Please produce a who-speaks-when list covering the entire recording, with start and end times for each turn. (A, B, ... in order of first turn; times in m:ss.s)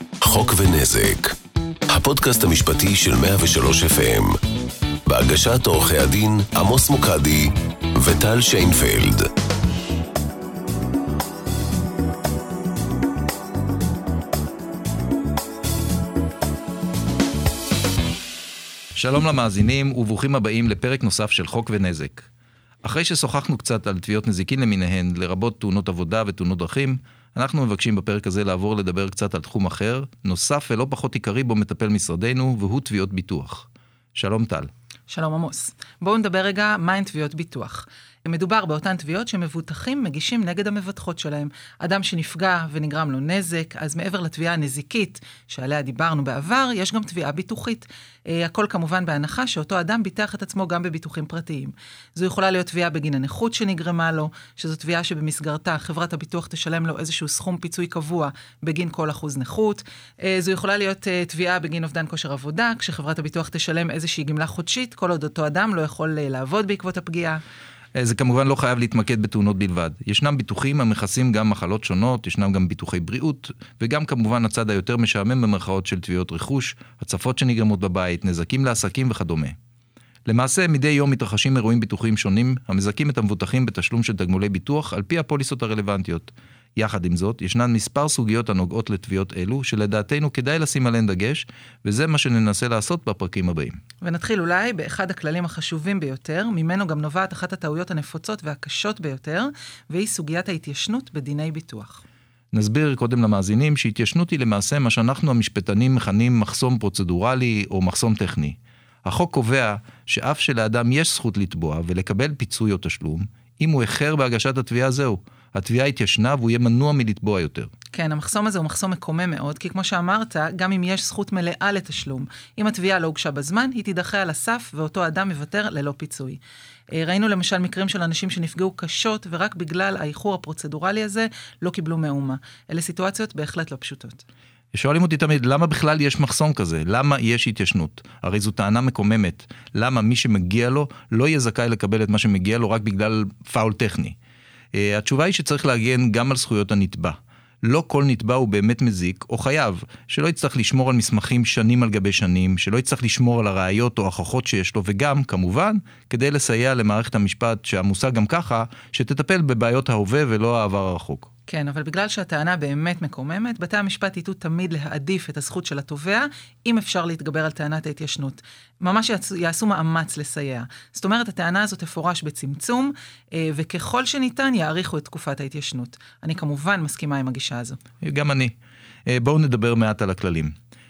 0:00.2-0:01.3 A
0:01.9-0:04.4 A
0:05.0-0:09.2 A
0:19.0-0:22.3 B
0:22.8-0:34.7 B
0:35.1-1:07.4 C
1:07.9-1:19.5 B
1:20.3-1:33.8 B
1:34.0-1:42.0 C
1:42.5-1:57.7 B
1:57.9-2:06.4 C
2:06.9-2:14.2 C
2:14.7-2:24.2 B
2:24.7-2:41.3 B
2:41.5-2:57.8 C
2:58.0-2:58.5 B
2:59.1-3:00.5 B